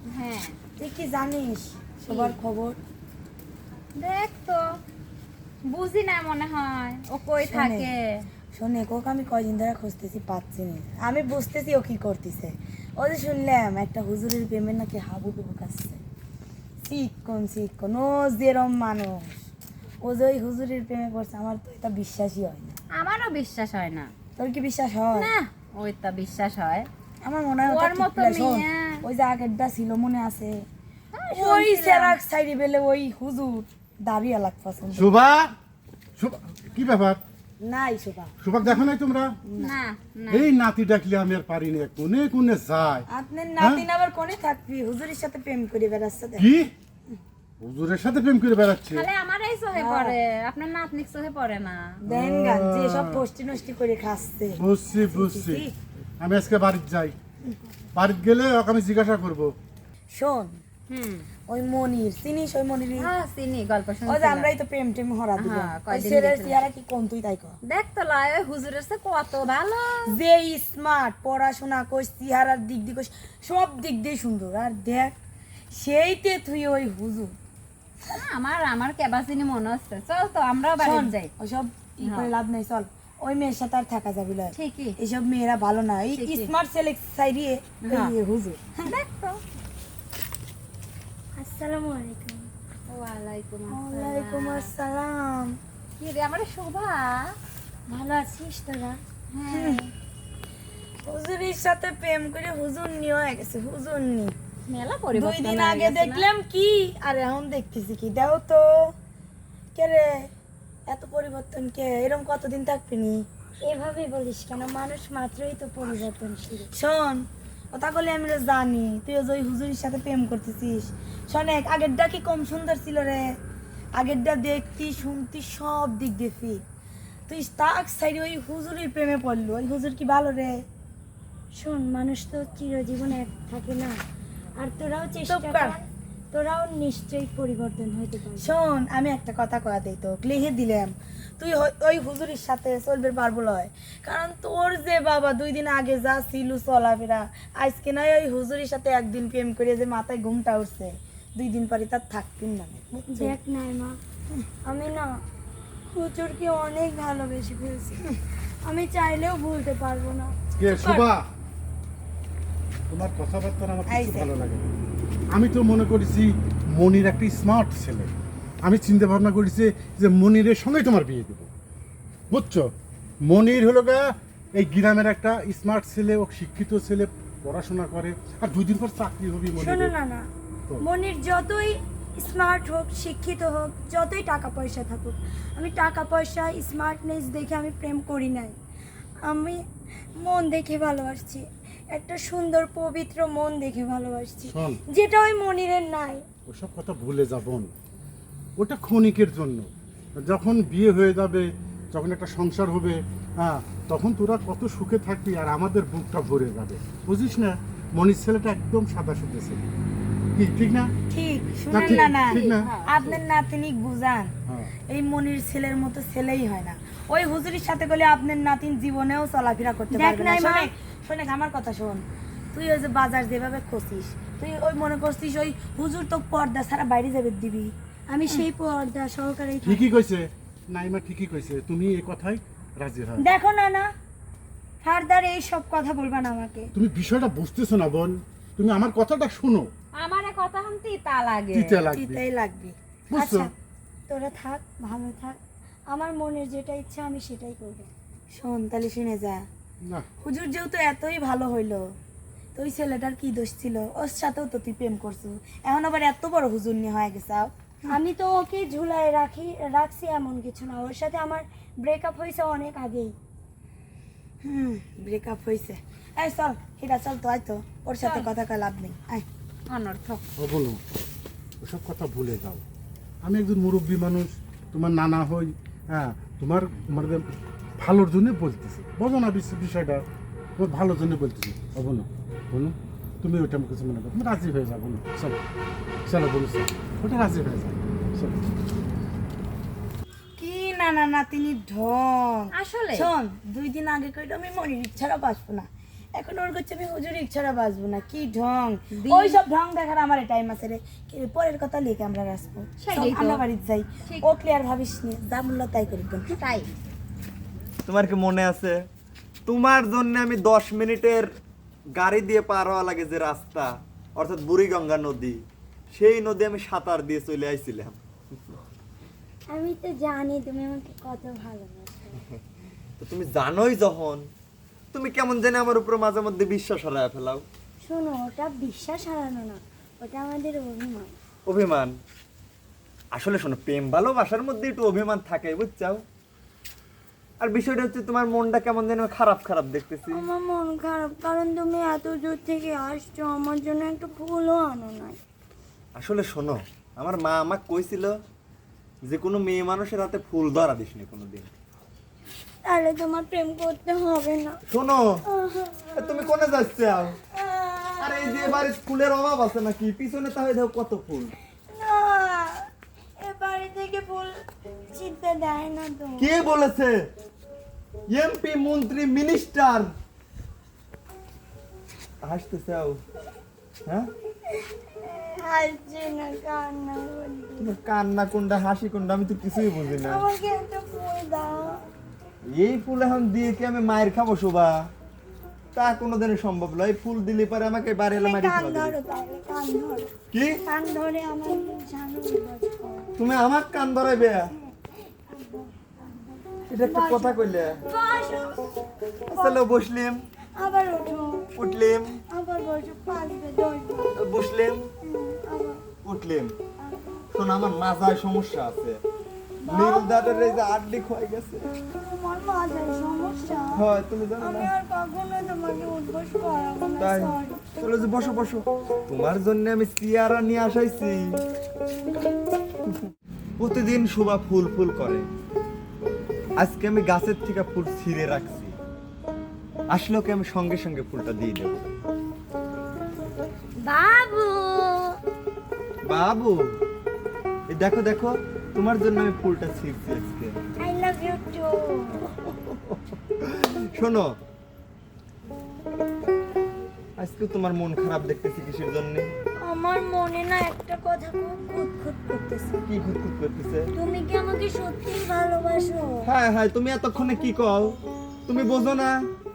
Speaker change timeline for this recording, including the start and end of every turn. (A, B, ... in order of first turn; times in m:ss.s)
0:00.1-0:00.6 A
0:00.8-0:02.8 B
0:04.0-0:04.6 A
0:05.7-0:08.2 A
0:07.4-0:07.9 B
0:08.5-0:16.0 B
0:16.8-0:19.4 B
0:20.0-0:22.8 B
0:23.0-0:24.1 A
0:24.4-0:25.3 B
0:25.2-0:26.9 A
0:27.2-0:30.7 B
0:27.7-0:29.0 A
0:31.2-0:32.2 A
0:31.3-0:35.1 B
0:34.9-0:35.6 C
0:36.2-0:37.2 C
0:37.6-0:38.3 B
0:38.4-0:39.4 C
0:39.5-0:39.8 B
0:39.6-0:40.5 A
0:40.3-0:43.1 C
0:43.1-0:46.4 B
0:46.4-0:46.7 C
0:47.6-0:49.1 C
0:48.9-0:51.9 A
0:49.7-0:50.2 B
0:52.0-0:55.7 B
0:52.1-0:53.2 C
0:54.6-0:55.7 C
0:56.2-0:57.2 C
0:58.0-0:59.6 C
1:00.1-1:00.6 B
1:00.9-1:01.3 A
1:01.5-1:03.1 B
1:03.0-1:04.5 A
1:04.1-1:07.6 B
1:05.4-1:06.6 A
1:07.7-1:10.0 A
1:10.1-1:15.1 B
1:15.8-1:17.3 B
1:18.1-1:21.3 A
1:20.8-1:28.9 B
1:22.0-1:22.3 A
1:24.5-1:25.0 A
1:26.2-1:26.5 A
1:27.9-1:28.1 A
1:28.8-1:29.4 A
1:31.4-1:32.5 D
1:32.9-1:34.7 A
1:33.7-1:35.6 B
1:36.0-1:37.4 A
1:37.9-1:39.0 D
1:39.3-1:39.9 A
1:39.5-1:39.8 B
1:41.0-1:44.3 B
1:44.7-1:46.3 A
1:45.1-1:48.9 B
1:49.8-1:50.3 B
1:50.9-1:53.2 B
1:53.6-1:56.7 D
1:56.7-2:03.2 B
2:04.0-2:06.6 B
2:07.3-2:10.6 B
2:11.6-2:14.0 D
2:14.6-2:18.5 D
2:15.3-2:15.8 B
2:18.4-2:33.4 B
2:33.1-2:34.0 D
2:34.7-2:35.2 D
2:35.9-2:38.1 D
2:38.7-2:40.4 D
2:40.6-2:41.3 C
2:40.7-2:41.1 B
2:42.9-2:44.7 C
2:43.9-2:44.3 B
2:45.3-2:51.5 C
2:52.3-2:52.7 C
2:53.2-2:59.9 C
2:59.6-3:00.3 D
3:00.8-3:08.6 D
3:09.2-3:09.6 D
3:10.2-3:16.2 D
3:14.5-3:14.8 C
3:16.5-3:17.7 C
3:18.6-3:29.7 C
3:30.4-3:30.9 C
3:31.1-3:34.3 B
3:31.7-3:32.7 C
3:31.7-3:33.2 A
3:34.5-3:34.7 C
3:34.9-3:47.7 B
3:39.9-3:40.7 D
3:48.1-3:49.8 D
3:49.6-3:53.2 C
3:53.2-3:53.9 D
3:54.8-3:56.7 D
3:56.8-3:59.7 C
4:00.0-4:01.9 A
4:01.5-4:02.2 C
4:01.9-4:02.8 B
4:03.1-4:03.5 C
4:03.1-4:03.5 D
4:04.1-4:05.4 D
4:05.9-4:07.9 D
4:08.3-4:09.5 B
4:10.2-4:11.8 B
4:12.6-4:18.0 B
4:17.9-4:23.1 D
4:24.4-4:29.2 B
4:28.0-4:28.3 A
4:29.7-4:30.2 A
4:30.4-4:30.8 C
4:31.6-4:32.6 C
4:33.2-4:40.0 C
4:40.6-4:45.4 C
4:46.1-4:48.5 C
4:50.4-5:06.3 B
4:52.5-4:53.1 A
4:59.0-4:59.4 A
5:02.8-5:03.4 A
5:06.4-5:06.7 A
5:07.9-5:08.8 E
5:09.5-5:11.3 E
5:12.0-5:15.4 E
5:16.0-5:18.0 E
5:19.5-5:22.2 D
5:23.0-5:24.2 E
5:24.9-5:27.4 E
5:27.8-5:31.1 D
5:31.5-5:31.9 E
5:33.2-5:36.0 E
5:37.4-5:40.2 E
5:40.2-5:45.2 D
5:46.0-5:48.1 E
5:49.1-5:51.5 E
5:52.6-5:54.6 D
5:54.7-5:55.0 E
5:55.3-5:56.6 D
5:56.0-5:57.2 E
5:57.3-5:58.7 D
5:58.0-6:01.3 E
6:01.7-6:04.4 D
6:04.9-6:06.3 D
6:06.2-6:07.0 E
6:08.1-6:09.9 E
6:12.2-6:13.0 E
6:14.5-6:17.7 D
6:17.6-6:20.2 E
6:19.5-6:21.8 D
6:22.6-6:24.7 E
6:25.8-6:29.0 E
6:28.1-6:30.1 D
6:30.3-6:30.6 E
6:30.7-6:33.1 D
6:33.2-6:34.5 E
6:35.3-6:38.7 D
6:36.7-6:37.8 E
6:39.3-6:39.7 D
6:39.3-6:40.2 E
6:40.6-6:41.5 D
6:41.6-6:42.2 E
6:42.3-6:44.2 D
6:44.1-6:44.8 E
6:45.0-6:45.8 D
6:46.0-6:46.6 E
6:46.8-6:47.3 D
6:47.3-6:49.0 E
6:49.6-6:50.6 D
6:49.7-6:51.7 E
6:52.0-6:53.8 D
6:53.8-6:54.7 E
6:54.4-6:57.7 D
6:57.0-7:01.2 E
7:03.6-7:05.3 E
7:06.6-7:08.7 E
7:09.9-7:11.9 E
7:13.8-7:15.2 D
7:16.1-7:16.6 E
7:17.7-7:20.6 E
7:20.8-7:22.4 D
7:22.5-7:24.3 E
7:27.2-7:29.3 E
7:29.6-7:32.8 D
7:32.9-7:33.9 E
7:34.0-7:36.3 D
7:36.2-7:38.0 E
7:38.5-7:39.2 E